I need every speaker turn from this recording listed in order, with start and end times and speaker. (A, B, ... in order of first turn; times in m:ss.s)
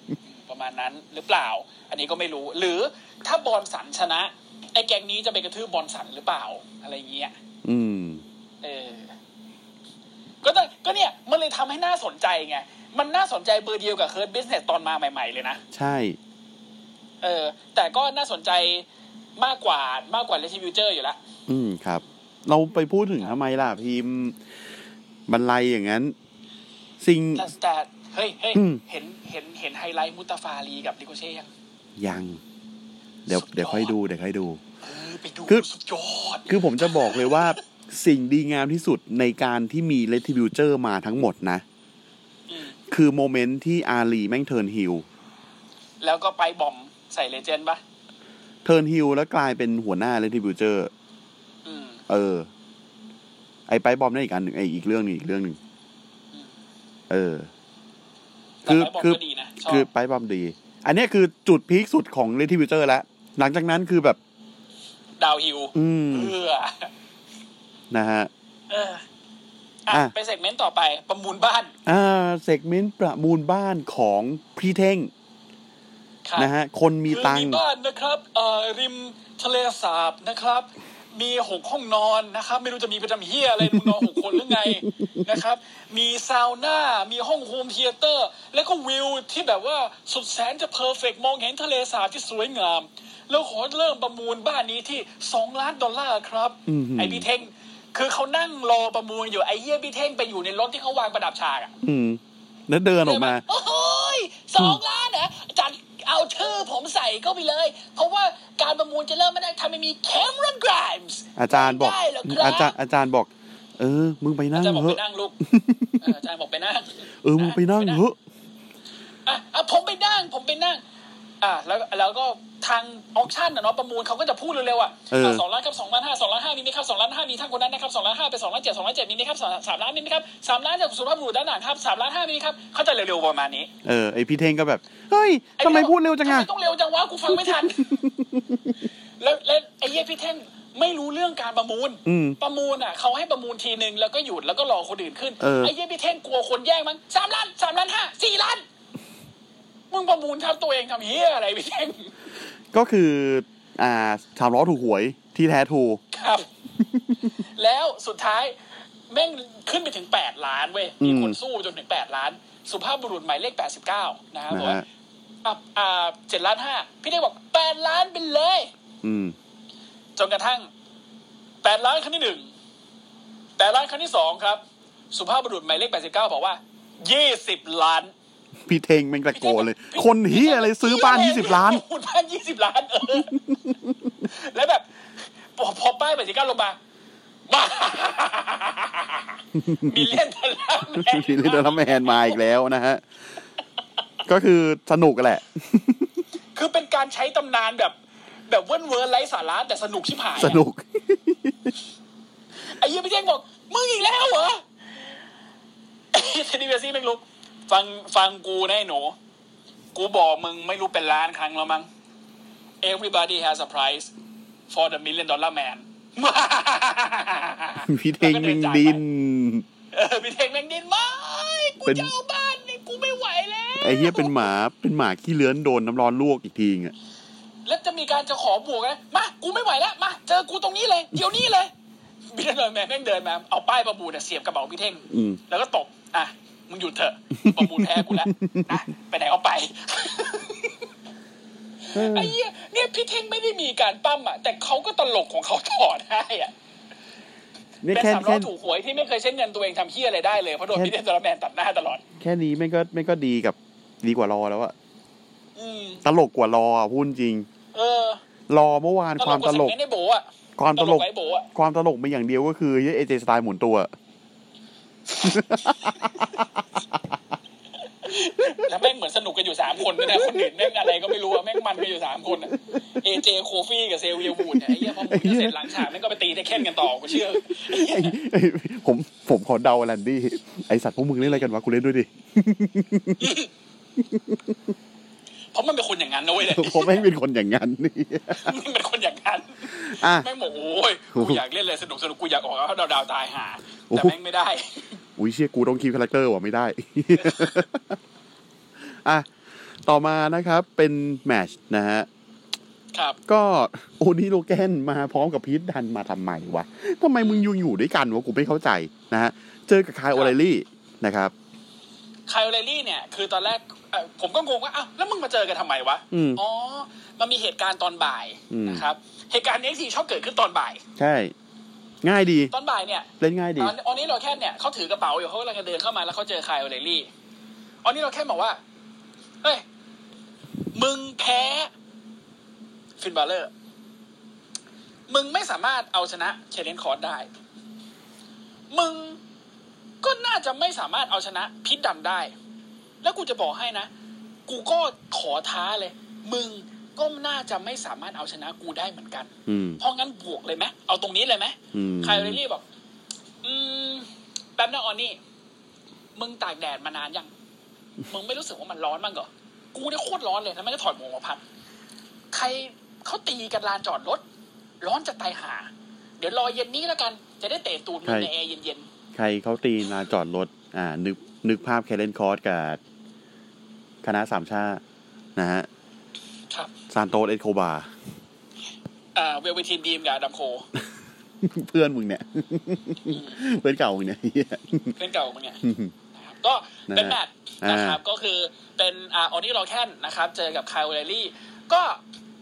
0:00.3-0:07.4 A
0:07.6-0:08.2 B
0:08.6-0:09.1 A
0:10.4-0:15.6 A
0:15.7-0:16.2 B
0:17.2-0:18.9 A
0:19.4-0:21.2 A
0:21.5-0:24.4 B
0:25.3-0:26.2 B
0:27.0-0:27.5 B
0:27.4-0:31.5 A
0:28.6-0:28.8 B
0:32.0-0:32.4 B
0:33.3-0:34.6 B
0:33.3-0:33.9 A
0:34.8-0:37.6 A
0:36.5-0:41.6 B
0:42.5-0:42.8 A
0:42.9-0:45.0 B
0:46.0-0:47.8 A
0:48.6-0:50.9 B
0:51.6-0:52.0 A
0:52.1-0:52.5 B
0:53.7-0:55.6 B
0:57.1-0:57.5 B
0:58.6-0:59.9 A
0:58.7-1:04.2 B
1:05.2-1:06.9 A
1:05.7-1:06.4 B
1:07.9-1:08.3 B
1:08.7-1:09.0 A
1:09.9-1:11.7 A
1:11.9-1:15.1 B
1:16.2-1:16.5 A
1:16.4-1:17.6 B
1:17.1-1:41.7 A
1:23.6-1:25.2 B
1:36.7-1:37.3 B
1:41.8-1:43.4 B
1:43.0-1:52.8 A
1:51.4-1:56.1 B
1:54.6-1:55.4 A
1:56.0-1:58.0 A
1:57.2-1:58.2 B
1:59.3-2:00.8 A
2:01.4-2:13.7 A
2:05.1-2:05.4 B
2:13.8-2:16.5 B
2:15.6-2:18.0 A
2:17.3-2:18.7 B
2:19.2-2:28.6 A
2:22.1-2:22.4 B
2:25.4-2:25.7 B
2:29.9-2:32.1 A
2:32.7-2:36.0 B
2:36.1-2:36.5 A
2:37.4-2:38.6 A
2:39.1-2:44.8 A
2:41.0-2:41.4 B
2:44.5-2:44.8 B
2:45.4-2:48.7 A
2:49.0-2:49.4 B
2:50.2-2:50.7 A
2:51.6-2:52.5 A
2:53.6-2:58.1 A
2:58.7-3:01.8 B
2:59.3-3:03.4 A
3:03.3-3:03.9 B
3:04.2-3:04.9 A
3:05.6-3:06.8 A
3:07.5-3:12.4 A
3:09.6-3:10.1 B
3:10.9-3:13.0 B
3:14.3-3:16.1 B
3:16.6-3:18.0 A
3:18.5-3:20.6 A
3:20.4-3:21.7 B
3:22.7-3:24.6 A
3:26.1-3:29.2 A
3:30.0-3:31.9 A
3:32.8-3:34.1 A
3:34.7-3:39.0 A
3:37.9-3:39.6 B
3:39.9-3:44.4 A
3:41.8-3:42.1 B
3:43.8-3:46.9 B
3:47.6-3:51.7 A
3:52.3-4:00.8 A
3:55.1-3:55.4 B
3:57.4-3:58.8 B
4:01.9-4:06.5 A
4:01.9-4:02.4 B
4:07.8-4:08.5 B
4:07.9-4:12.0 A
4:12.2-4:14.7 B
4:15.6-4:16.0 A
4:16.0-4:17.5 B
4:17.7-4:18.2 A
4:18.5-4:19.8 B
4:19.2-4:21.5 A
4:20.6-4:23.9 B
4:25.2-4:26.4 B
4:28.0-4:38.2 A
4:30.0-4:30.9 B
4:32.7-4:33.0 B
4:34.3-4:35.8 B
4:37.1-4:43.4 B
4:41.2-4:41.5 A
4:43.2-4:43.5 A
4:44.0-4:44.6 B
4:45.5-4:47.1 A
4:46.4-4:48.6 B
4:48.3-4:54.9 A
4:49.7-4:50.3 B
4:51.1-4:51.4 B
4:53.9-4:54.2 B
4:55.2-4:58.0 B
4:57.2-4:57.6 A
4:58.9-4:59.3 B
4:59.8-5:02.1 B
5:03.3-5:11.3 B
5:07.2-5:07.5 A
5:12.3-5:20.8 A
5:16.1-5:16.4 B
5:18.5-5:18.8 B
5:21.0-5:21.3 B
5:22.0-5:22.5 B
5:22.5-5:27.1 A
5:23.2-5:23.8 B
5:27.8-5:28.6 A
5:30.7-5:31.7 A
5:33.0-5:33.5 A
5:35.1-5:37.3 A
5:38.7-5:39.2 A
5:40.0-5:42.3 A
5:43.0-5:43.9 A
5:44.5-5:52.6 A
5:49.5-5:49.8 B
5:51.7-5:52.4 B
5:53.4-5:55.2 A
5:56.2-5:57.3 A
5:58.1-6:01.4 A
6:02.3-6:04.2 A
6:04.8-6:08.9 A
6:08.0-6:08.3 B
6:09.2-6:12.8 B
6:14.0-6:14.8 B
6:15.4-6:15.7 B
6:16.9-6:17.9 B
6:19.2-6:20.7 A
6:21.4-6:24.9 B
6:23.1-6:23.4 A
6:25.0-6:25.6 A
6:25.6-6:25.9 B
6:26.2-6:32.0 A
6:26.9-6:28.0 B